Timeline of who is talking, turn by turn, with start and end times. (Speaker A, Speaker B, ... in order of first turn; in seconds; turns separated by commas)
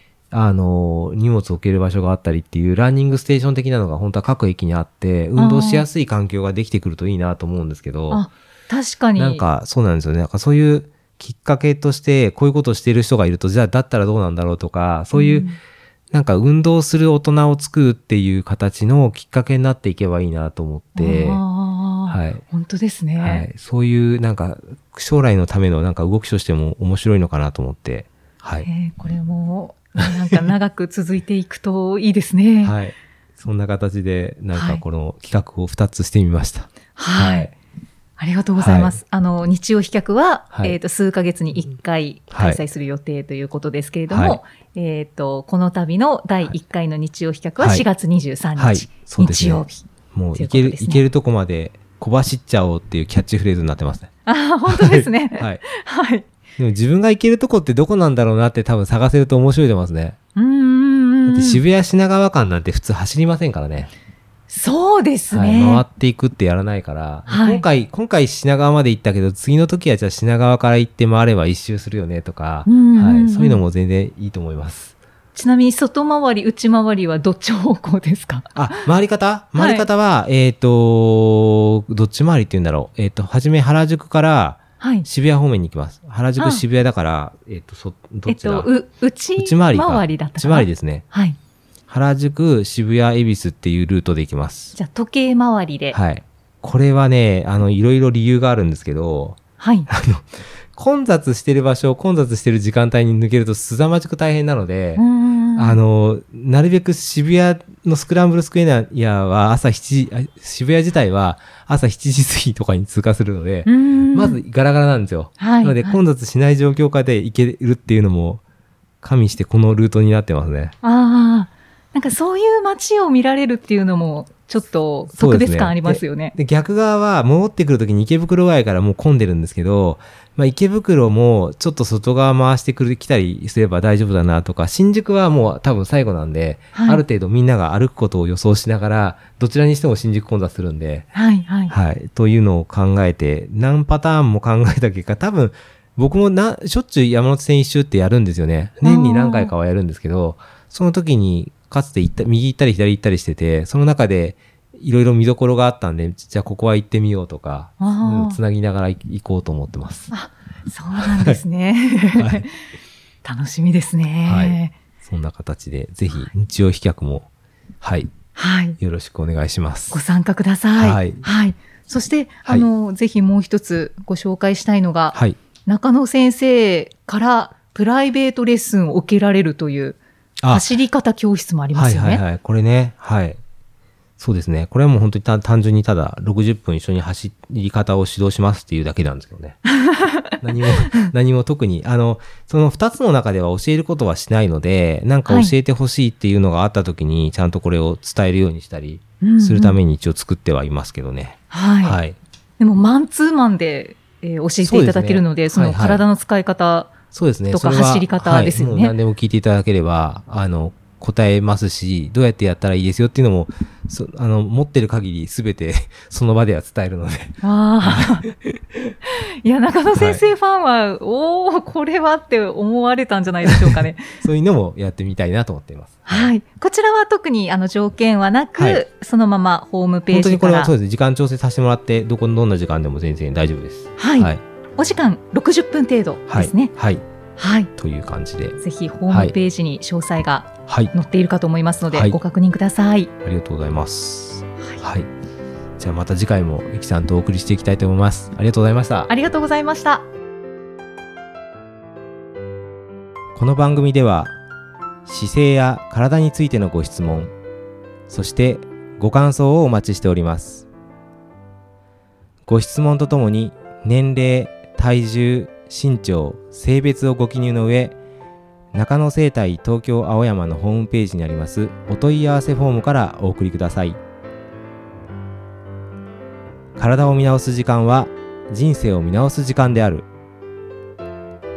Speaker A: 0.3-8.2, Speaker B: 5.3-5.8, Speaker B: 8.1-9.4, Speaker A: 9.2-15.5, Speaker B: 15.1-15.6, Speaker A: 16.1-21.4, Speaker B: 20.9-23.5, Speaker A: 22.1-22.4, Speaker A: 23.2-28.7, Speaker B: 28.6-32.8, Speaker A: 29.9-30.4, Speaker A: 32.6-37.5, Speaker B: 34.5-34.8, Speaker B: 37.0-37.5, Speaker B: 38.2-51.0, Speaker A: 38.6-39.0, Speaker A: 40.5-40.8, Speaker A: 42.3-42.6, Speaker A: 44.1-44.4, Speaker A: 47.6-47.8, Speaker A: 48.5-54.1, Speaker B: 54.2-56.2, Speaker A: 54.6-55.6, Speaker A: 56.6-60.2, Speaker B: 60.4-61.6, Speaker A: 61.3-63.9, Speaker B: 64.5-65.8, Speaker A: 65.3-74.9, Speaker B: 67.3-67.7, Speaker B: 72.7-73.6, Speaker B: 75.3-78.8, Speaker A: 78.5-88.7, Speaker B: 79.5-79.9, Speaker B: 84.8-85.1, Speaker B: 86.4-86.6, Speaker B: 88.3-91.4, Speaker A: 89.4-91.0, Speaker A: 91.9-94.8, Speaker B: 94.8-96.0, Speaker A: 95.9-105.0, Speaker B: 99.6-99.9, Speaker B: 105.0-105.8, Speaker A: 105.5-118.4, Speaker B: 113.7-114.4, Speaker B: 115.4-116.0, Speaker A: 119.0-120.7, Speaker B: 120.8-126.3, Speaker A: 125.1-141.1, Speaker B: 136.7-137.0, Speaker B: 141.1-141.7, Speaker A: 141.7-160.1, Speaker B: 148.8-149.5, Speaker B: 157.8-158.4, Speaker B: 160.1-162.5, Speaker A: 160.9-161.4, Speaker A: 162.1-162.4, Speaker B: 163.2-164.8, Speaker A: 164.2-167.3, Speaker A: 167.8-168.1, Speaker B: 168.3-168.8, Speaker A: 168.8-170.0, Speaker B: 169.9-180.0, Speaker A: 170.7-171.2, Speaker A: 175.1-175.4, Speaker A: 180.4-180.7, Speaker B: 180.5-182.2, Speaker A: 181.7-183.4, Speaker A: 184.2-189.7, Speaker B: 189.8-190.3, Speaker A: 190.4-202.2, Speaker B: 195.3-195.5, Speaker B: 199.2-199.8, Speaker B: 201.5-202.0, Speaker B: 202.6-206.9, Speaker A: 204.6-206.0, Speaker A: 207.1-218.5, Speaker B: 207.5-208.9, Speaker B: 217.4-218.3, Speaker B: 219.4-224.1, Speaker A: 219.9-220.2, Speaker A: 223.4-226.3, Speaker B: 226.1-230.7, Speaker A: 228.6-228.8, Speaker A: 230.1-234.4, Speaker B: 234.0-236.7, Speaker A: 236.3-237.0, Speaker B: 237.4-237.7, Speaker A: 237.8-239.3, Speaker B: 238.6-243.1, Speaker A: 240.7-240.9, Speaker A: 241.9-242.2, Speaker A: 243.2-245.1, Speaker A: 245.8-249.1, Speaker B: 249.1-250.1, Speaker A: 253.3-254.3, Speaker A: 255.0-257.3, Speaker A: 258.1-260.7, Speaker A: 262.4-268.0, Speaker A: 268.7-274.0, Speaker A: 276.8-280.1